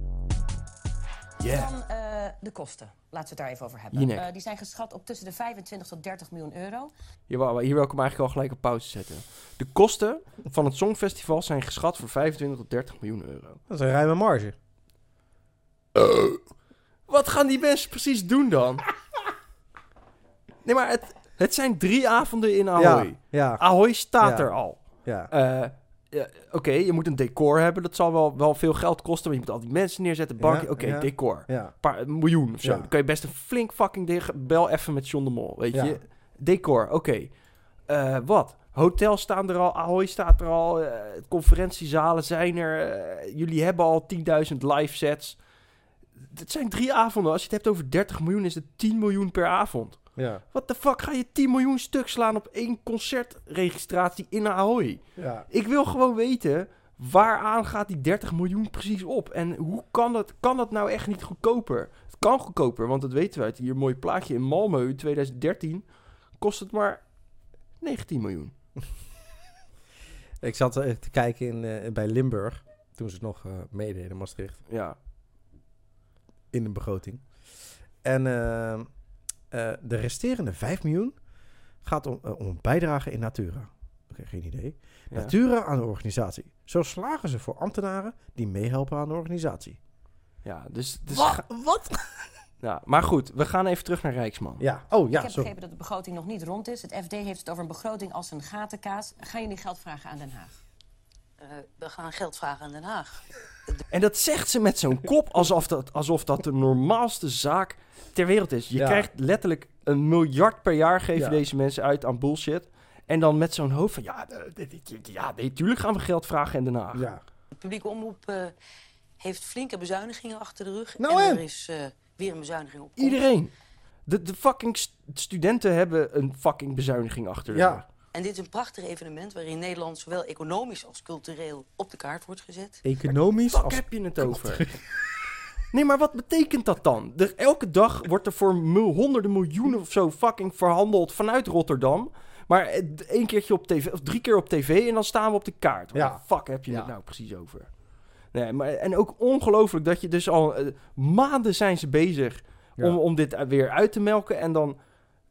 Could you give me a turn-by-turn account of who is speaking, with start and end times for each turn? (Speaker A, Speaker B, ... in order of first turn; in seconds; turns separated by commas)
Speaker A: 1.4-1.7, Speaker B: 1.5-6.9, Speaker A: 3.9-4.2, Speaker A: 7.3-13.6, Speaker C: 13.7-14.5, Speaker A: 17.1-18.8, Speaker A: 20.6-45.5, Speaker C: 22.7-25.3, Speaker C: 30.4-31.8, Speaker C: 32.6-32.9, Speaker C: 35.7-36.0, Speaker A: 46.3-68.5, Speaker C: 50.1-50.4, Speaker C: 55.1-55.5, Speaker C: 70.4-74.6, Speaker A: 74.7-75.0, Speaker C: 76.5-78.9, Speaker C: 79.5-81.2, Speaker C: 81.8-89.8, Speaker A: 90.4-91.4, Speaker C: 91.1-92.3, Speaker A: 92.6-94.6, Speaker C: 94.6-95.5, Speaker B: 95.1-100.5, Speaker D: 101.4-103.2, Speaker A: 103.9-117.1, Speaker C: 108.8-109.1, Speaker C: 111.1-111.4, Speaker C: 116.9-117.2, Speaker D: 117.5-118.5, Speaker D: 119.2-123.2, Speaker C: 121.0-121.4, Speaker A: 123.0-123.5, Speaker A: 124.0-127.8, Speaker C: 127.5-127.8, Speaker D: 128.1-132.8, Speaker C: 132.8-134.9, Speaker A: 133.5-134.8, Speaker A: 135.7-154.9, Speaker C: 145.9-146.9